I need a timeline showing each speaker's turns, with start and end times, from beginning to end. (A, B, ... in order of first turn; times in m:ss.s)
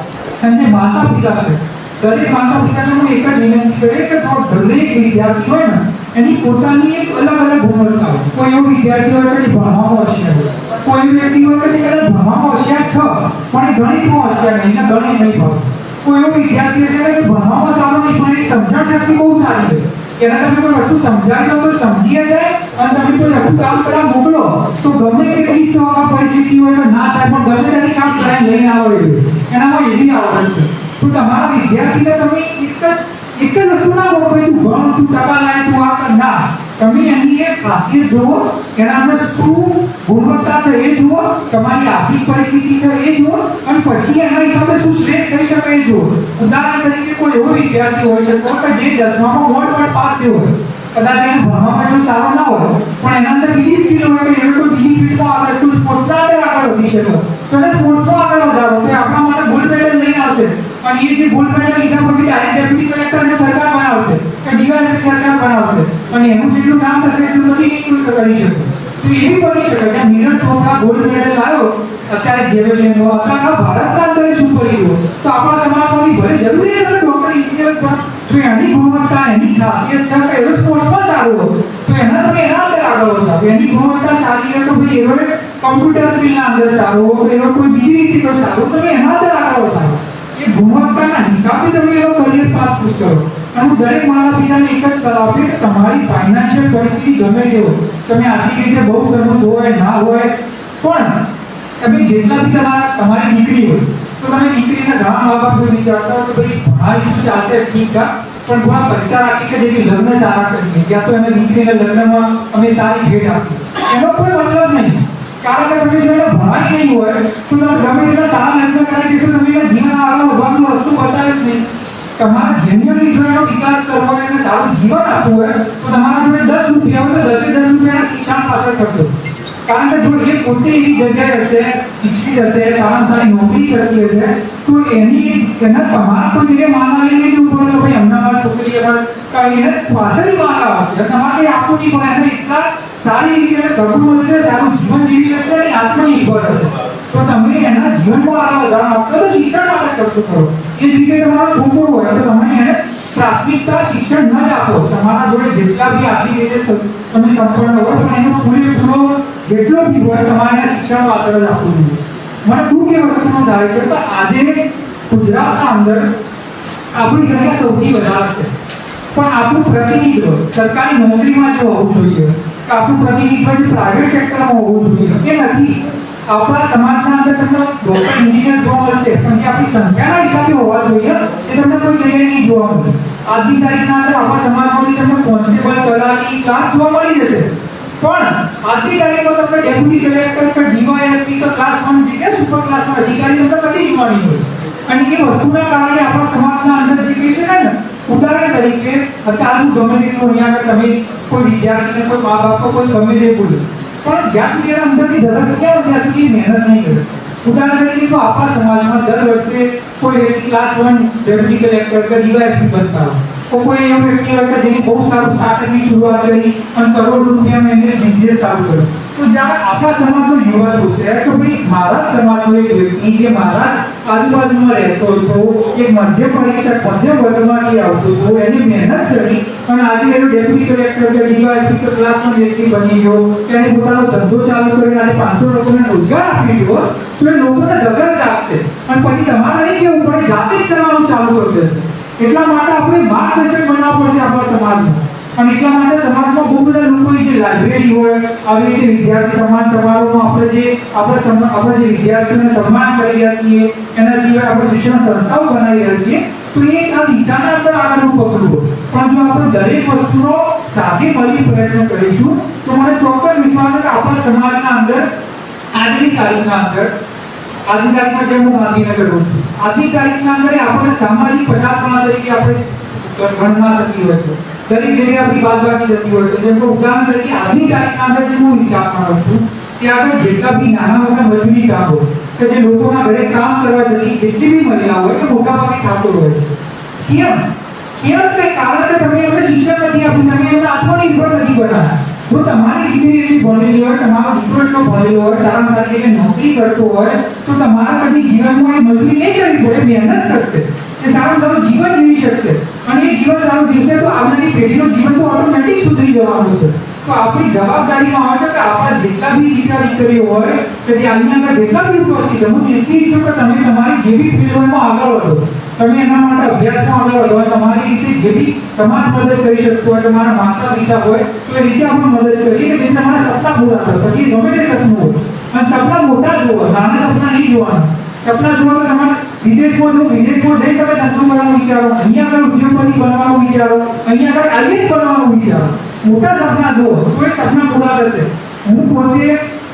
0:00.4-1:41.2 A
1:41.8-2:01.6 A
2:02.2-2:09.1 A
2:09.6-2:46.1 A
2:46.9-2:48.5 A
2:49.1-4:25.1 A
4:25.7-4:26.9 A
4:27.7-4:46.5 A
4:47.0-5:39.4 A